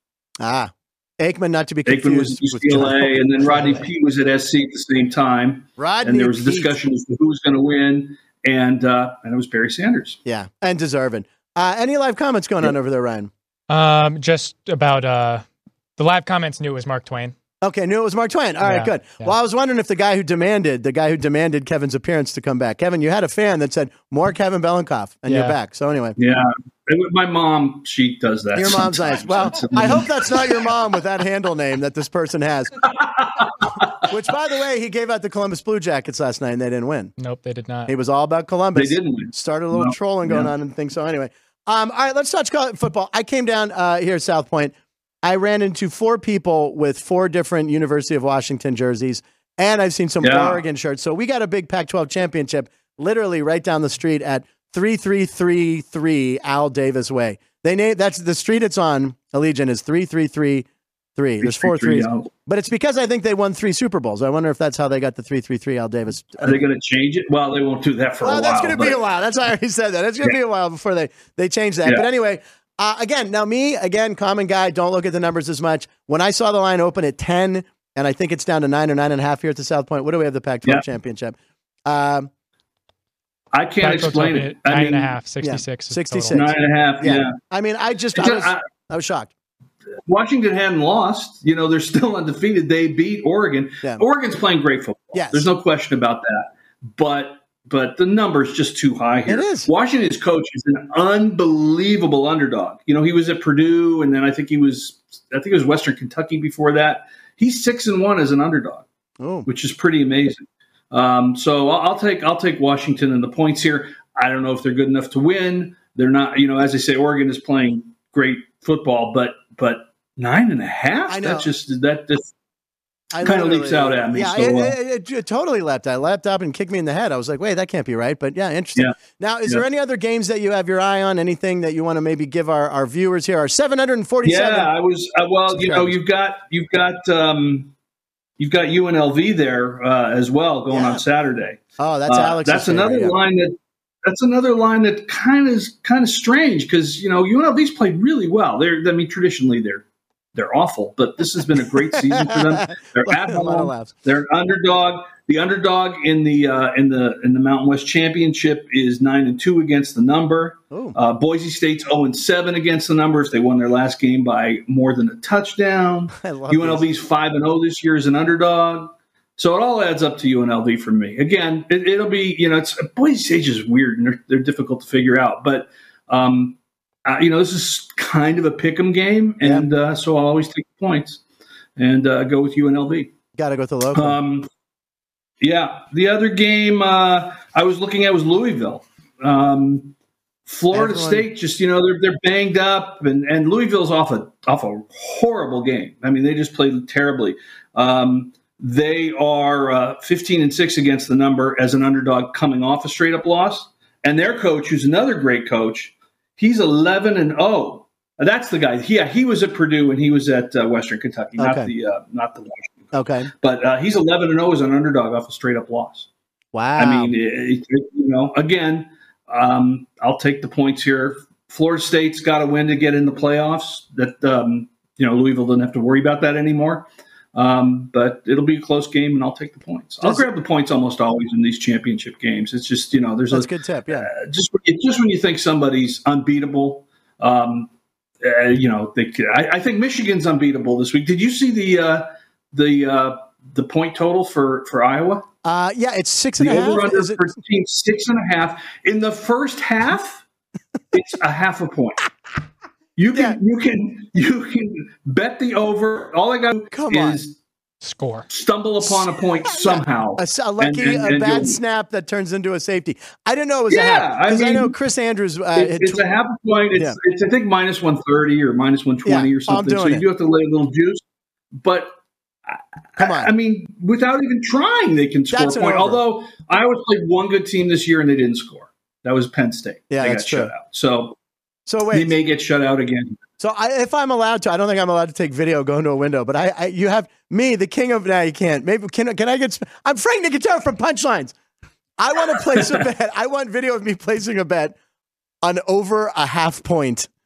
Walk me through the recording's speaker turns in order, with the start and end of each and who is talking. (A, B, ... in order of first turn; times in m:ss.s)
0:00.4-0:03.8 A
0:01.9-0:10.2 B
0:05.8-0:06.8 A
0:10.2-0:13.3 A
0:13.7-0:15.4 C
0:16.0-0:17.4 C
0:17.6-0:26.2 A
0:18.6-0:19.3 C
0:25.3-0:25.6 C
0:26.2-0:30.7 B
0:28.5-0:32.7 A
0:32.8-0:34.0 B
0:34.0-0:37.1 A
0:37.2-0:37.9 C
0:37.9-1:06.6 A
0:38.8-0:40.5 B
0:50.2-0:50.6 B
1:01.4-1:02.3 B
1:06.4-1:09.0 B
1:08.2-1:22.3 A
1:23.5-1:25.1 B
1:23.8-1:26.5 C
1:25.4-1:29.3 A
1:26.3-1:27.4 B
1:28.1-1:28.6 B
1:30.0-1:48.9 B
1:35.1-1:35.5 A
1:39.3-1:39.7 A
1:49.2-1:49.5 A
1:49.4-2:02.3 B
2:01.1-2:01.5 A
2:03.1-2:14.7 A
2:03.2-2:04.7 B
2:14.2-2:17.7 B
2:15.5-2:16.0 A
2:18.4-3:01.2 B
2:20.7-2:21.0 A
2:21.8-2:23.2 A
2:32.1-2:33.9 A
2:40.7-2:41.0 A
2:46.2-2:46.8 A
3:01.8-3:03.1 B
3:03.4-3:04.2 A
3:03.9-3:04.5 B
3:05.4-3:09.9 B
3:10.5-3:36.1 B
3:10.7-3:11.2 A
3:31.4-3:31.7 A
3:32.9-3:33.3 A
3:36.5-3:37.1 A
3:36.8-3:57.7 B
3:53.3-3:54.1 A
3:58.2-4:05.3 B
4:05.4-4:07.3 A
4:06.4-4:10.2 B
4:10.9-4:12.1 B
4:13.0-4:17.4 B
4:16.7-4:17.2 A
4:17.8-4:18.3 C
4:18.3-4:21.6 B
4:19.5-4:26.0 A
4:23.7-4:24.7 B
4:25.6-4:31.0 B
4:29.0-4:30.0 A
4:31.6-4:31.9 B
4:32.5-4:41.2 B
4:33.0-4:33.3 A
4:35.3-4:36.0 A
4:39.9-4:40.5 A
4:41.7-4:42.1 A
4:41.9-4:43.2 B
4:43.4-4:51.3 A
4:52.0-4:54.8 A
4:55.4-4:57.1 A